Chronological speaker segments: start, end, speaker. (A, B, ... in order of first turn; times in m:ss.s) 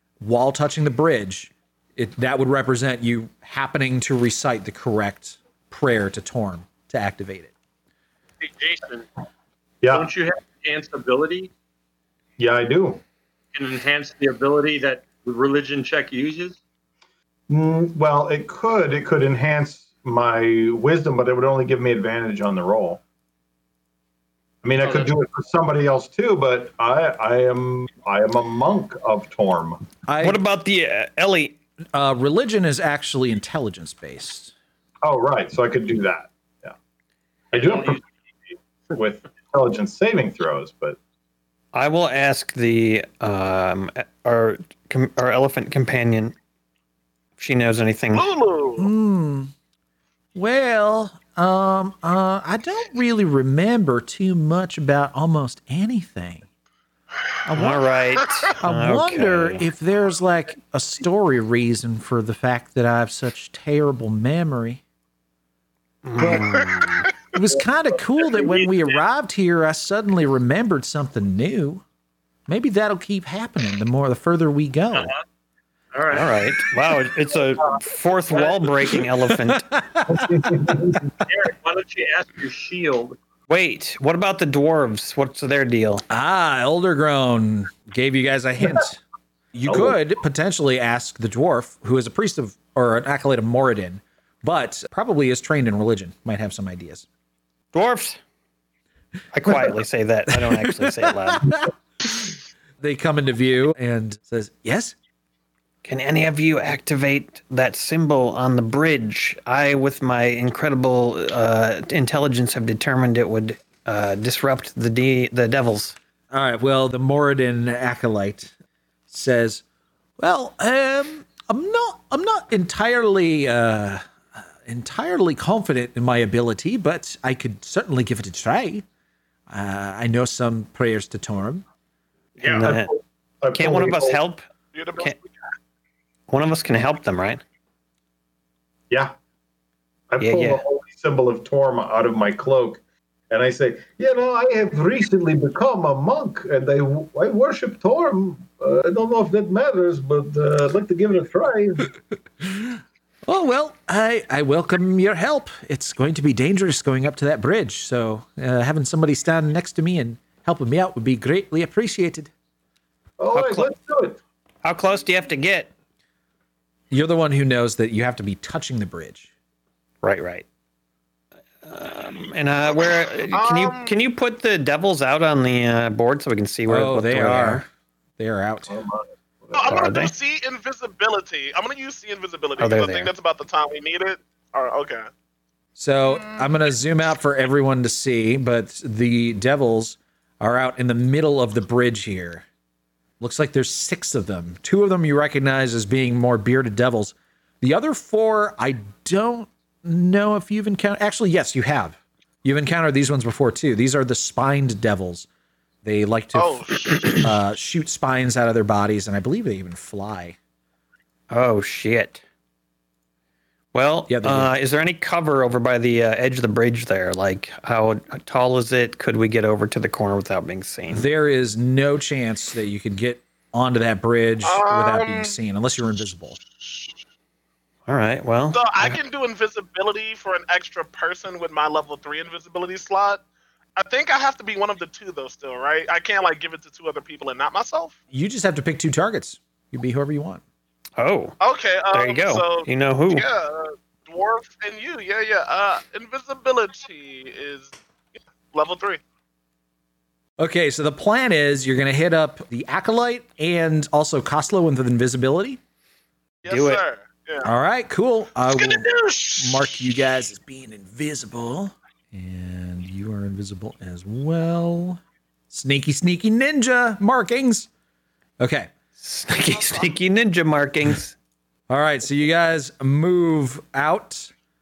0:00.2-0:07.5 A
0:08.4-0:09.1 B
0:09.8-0:10.1 C
0:09.9-0:11.5 B
0:12.4-0:13.0 C
0:13.5-0:16.6 B
0:17.5-0:23.0 C
0:24.6-0:29.8 C
0:24.8-0:25.1 B
0:30.0-0:30.4 A
0:30.2-0:31.6 D
0:31.9-0:34.5 A
0:35.0-0:36.7 C
0:37.5-0:38.0 C
0:37.6-0:38.0 B
0:38.9-0:41.0 C
0:41.7-0:46.3 D
0:47.4-0:48.3 D
0:48.1-0:48.9 E
0:48.8-0:49.5 A
0:50.3-0:56.5 A
0:57.4-1:04.8 A
0:57.5-0:59.7 D
1:06.0-1:07.1 D
1:06.2-1:06.5 A
1:07.3-1:11.8 A
1:08.4-1:08.7 B
1:12.5-1:15.1 A
1:14.9-1:15.2 B
1:15.9-1:16.7 B
1:16.1-1:19.7 D
1:17.6-1:19.0 B
1:19.5-1:20.6 A
1:20.0-1:21.1 C
1:21.2-1:23.2 B
1:23.5-1:26.0 D
1:26.1-1:29.0 A
1:29.5-1:37.0 A
1:29.7-1:29.9 C
1:37.7-1:38.2 D
1:39.3-1:41.6 D
1:40.4-1:44.9 A
1:45.8-1:56.0 D
1:56.3-1:58.5 A
1:59.1-1:59.6 A
2:00.2-2:08.8 A
2:09.5-2:11.6 A
2:12.4-2:12.9 D
2:12.4-2:14.2 C
2:13.5-2:14.4 D
2:14.7-2:15.2 E
2:16.3-2:17.4 D
2:20.1-2:31.9 C
2:20.2-2:20.6 D
2:32.4-2:42.3 A
2:43.2-2:44.2 C
2:43.3-2:43.6 A
2:44.6-2:45.7 D
2:46.9-2:49.3 A
2:50.0-2:50.4 D
2:51.6-2:57.6 D
2:53.3-2:54.0 E
2:56.7-2:57.7 A
2:58.2-2:58.8 A
2:58.7-2:59.7 C
2:59.5-3:05.1 E
2:59.6-3:00.1 D
3:02.6-3:03.1 D
3:05.8-3:12.4 A
3:13.2-3:25.3 A
3:25.8-3:30.4 A
3:26.3-3:27.2 E
3:31.3-3:32.2 D
3:33.7-3:41.0 D
3:34.1-3:34.5 A
3:40.9-3:46.4 A
3:44.4-3:45.3 E
3:47.9-3:49.0 D
3:48.5-3:53.2 E
3:53.8-3:57.9 E
3:58.1-4:00.4 A
4:01.0-4:01.4 D
4:01.4-4:07.7 E
4:01.9-4:03.3 D
4:08.5-4:09.0 E
4:10.4-4:15.6 A
4:16.4-4:17.5 E
4:16.5-4:16.8 D
4:17.4-4:27.7 A
4:18.5-4:19.9 E
4:28.4-4:28.7 A
4:29.0-4:31.2 D
4:31.7-4:34.3 A